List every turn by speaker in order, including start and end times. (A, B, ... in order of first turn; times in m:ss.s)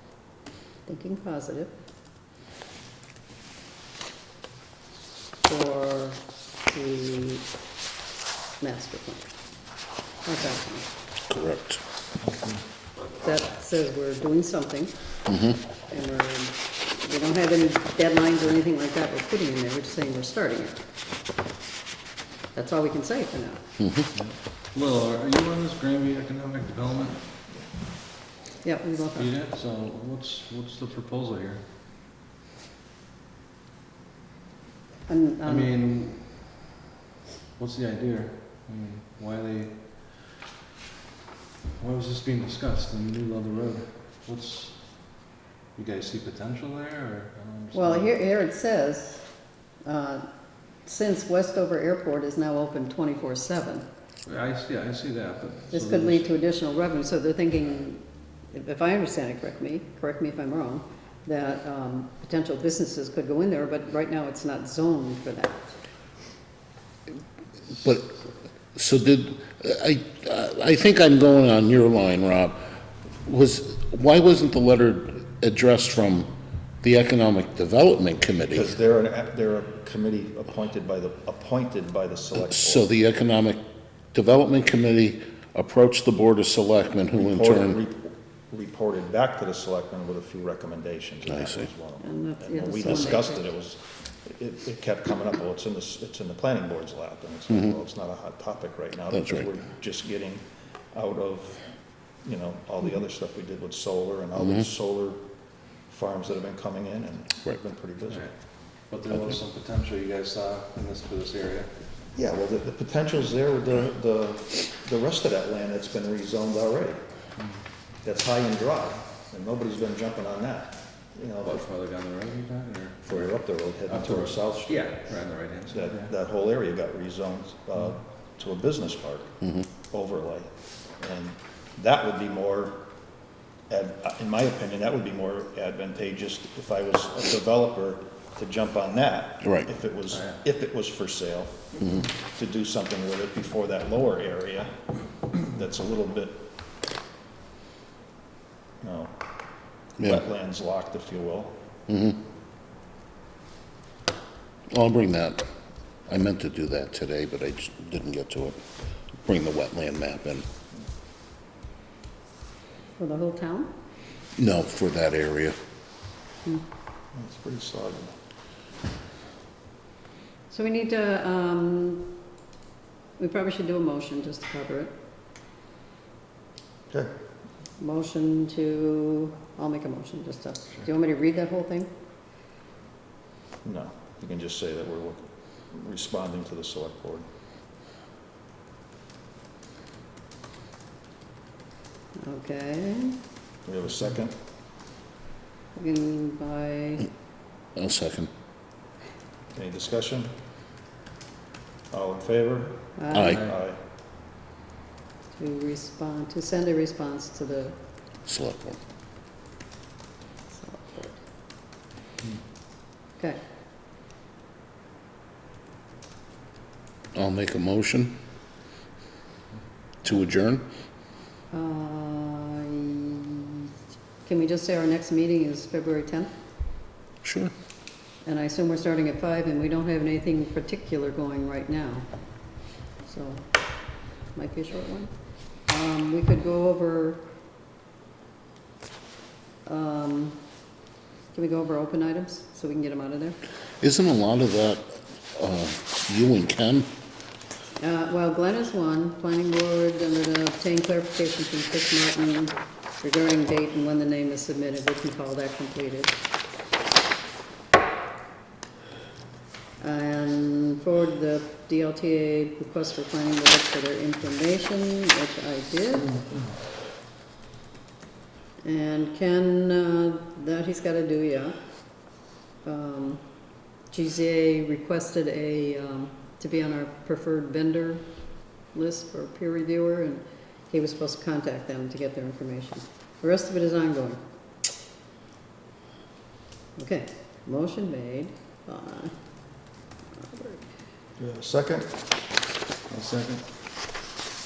0:00.9-0:01.7 A
0:05.4-0:07.5 A
0:08.6-0:09.3 A
0:10.2-0:10.9 A
0:11.3-0:11.8 B
0:12.2-0:12.6 C
0:13.2-0:15.0 A
0:15.3-0:15.6 B
0:15.9-0:20.8 A
0:22.5-0:23.7 A
0:23.8-0:24.1 B
0:24.2-0:27.3 C
0:28.6-0:29.3 A
0:29.2-0:31.7 C
0:35.1-0:35.7 A
0:35.4-0:36.6 C
0:37.6-0:40.3 C
0:41.8-0:48.1 C
0:47.7-0:49.3 A
0:49.8-0:50.3 A
0:50.8-0:53.9 A
0:54.3-0:56.3 C
0:55.7-1:05.8 A
1:07.7-1:08.2 B
1:08.8-1:12.6 B
1:13.2-1:18.7 B
1:18.5-1:22.9 D
1:22.5-1:23.6 B
1:24.1-1:27.8 B
1:27.2-1:41.6 D
1:31.3-1:31.7 B
1:32.0-1:33.4 A
1:39.1-1:39.5 B
1:42.2-1:45.2 D
1:44.4-1:44.7 B
1:45.9-1:48.3 D
1:48.0-1:51.8 C
1:52.2-1:57.0 D
1:58.0-2:01.6 D
2:01.4-2:06.1 C
2:03.1-2:05.1 D
2:05.7-2:09.4 D
2:09.9-2:12.8 D
2:13.7-2:21.8 D
2:19.4-2:19.7 B
2:20.1-2:20.4 C
2:22.4-2:24.7 D
2:25.5-2:26.4 D
2:28.8-2:29.1 D
2:30.0-2:31.6 D
2:30.0-2:30.2 B
2:31.9-2:32.2 B
2:34.7-2:35.4 B
2:36.1-2:38.6 B
2:39.2-2:40.4 B
2:43.0-2:43.7 A
2:44.4-2:45.6 B
2:47.1-2:48.2 D
2:50.5-2:52.1 A
2:53.2-2:54.9 A
2:57.8-3:01.9 A
3:03.6-3:07.3 D
3:12.2-3:13.2 A
3:13.7-3:14.4 D
3:15.8-3:17.1 A
3:17.8-3:18.3 B
3:19.5-3:20.3 D
3:21.9-3:23.8 D
3:23.0-3:23.4 A
3:23.1-3:23.4 B
3:23.3-3:23.6 C
3:25.3-3:27.8 A
3:28.2-3:28.8 B
3:30.5-3:31.2 A
3:37.2-3:38.2 B
3:40.0-3:40.7 B
3:41.5-3:43.6 A
3:44.2-3:46.3 A
3:47.2-3:47.5 B
3:48.2-3:57.2 A
3:59.6-4:00.4 A
4:01.3-4:03.4 A
4:03.8-4:06.9 B
4:07.8-4:16.2 A
4:19.8-4:26.3 A
4:28.6-4:31.6 A
4:32.6-4:33.2 A
4:33.9-4:38.2 A
4:38.7-4:44.2 A
4:46.8-4:49.2 A
4:50.1-4:50.7 A
4:51.2-4:52.0 D
4:52.9-4:53.5 C